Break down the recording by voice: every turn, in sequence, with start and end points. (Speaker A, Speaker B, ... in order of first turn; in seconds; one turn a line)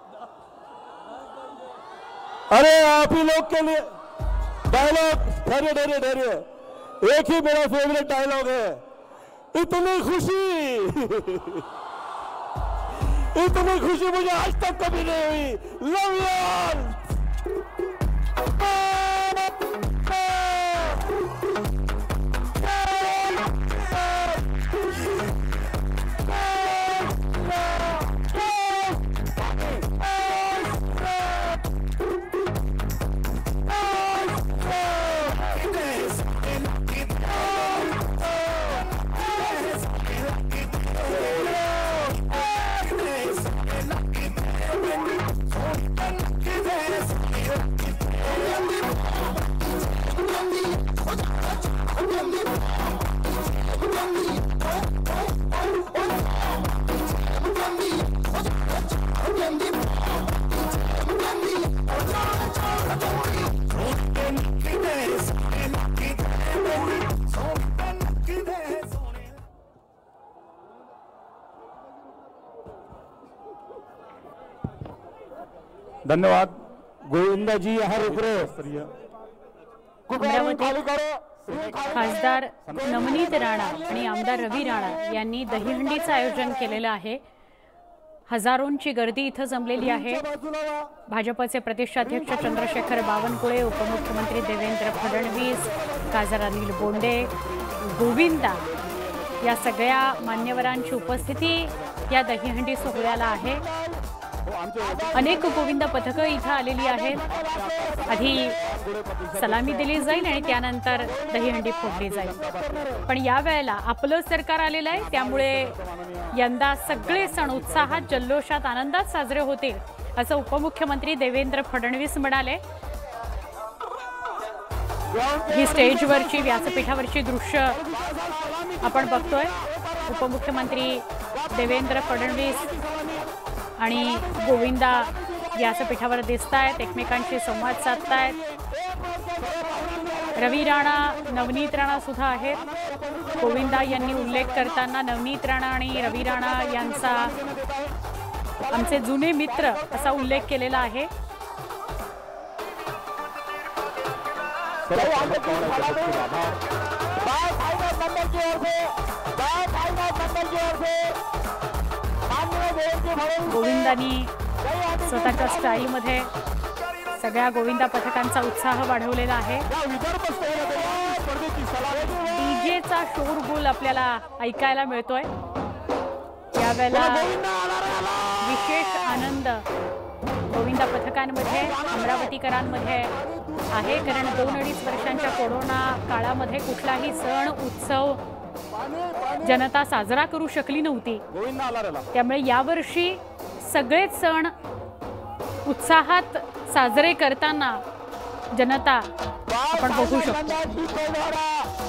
Speaker A: 2.5-3.8
Speaker A: 4.7-6.4
Speaker A: 7.0-8.8
Speaker A: 9.5-11.6
Speaker A: 13.3-17.0
Speaker B: 76.0-78.9
Speaker B: 80.1-83.1
Speaker C: 80.2-80.8
Speaker C: 81.9-87.2
Speaker C: 88.3-90.2
Speaker C: 91.1-98.7
Speaker C: 99.4-103.6
Speaker B: 104.5-105.4
Speaker C: 105.1-107.2
Speaker B: 107.2-110.5
Speaker C: 108.1-108.6
Speaker C: 109.3-112.5
Speaker B: 111.1-113.0
Speaker C: 113.0-115.8
Speaker B: 115.1-116.3
Speaker C: 116.3-122.6
Speaker B: 116.9-118.1
Speaker B: 125.1-126.3
Speaker C: 125.5-127.8
Speaker B: 127.8-128.8
Speaker C: 128.8-129.5
Speaker C: 130.1-132.7
Speaker B: 132.8-133.2
Speaker C: 133.8-138.4
Speaker B: 138.8-140.4
Speaker C: 140.3-142.6
Speaker B: 142.8-144.5
Speaker C: 143.4-147.3
Speaker B: 147.3-147.9
Speaker C: 148.7-151.1
Speaker B: 154.9-156.6
Speaker B: 157.2-161.2
Speaker B: 162.3-163.6
Speaker C: 163.5-164.3
Speaker B: 164.6-165.7
Speaker C: 165.0-166.3
Speaker C: 167.2-169.7
Speaker B: 169.7-172.3
Speaker C: 172.2-175.3
Speaker C: 176.5-177.3
Speaker B: 176.9-178.3
Speaker C: 178.4-179.6
Speaker C: 180.5-183.1
Speaker C: 183.7-188.2
Speaker C: 189.4-191.2
Speaker B: 191.3-192.0
Speaker C: 192.1-194.5
Speaker C: 195.7-197.8
Speaker C: 198.5-199.1
Speaker B: 199.5-201.7
Speaker C: 199.7-200.6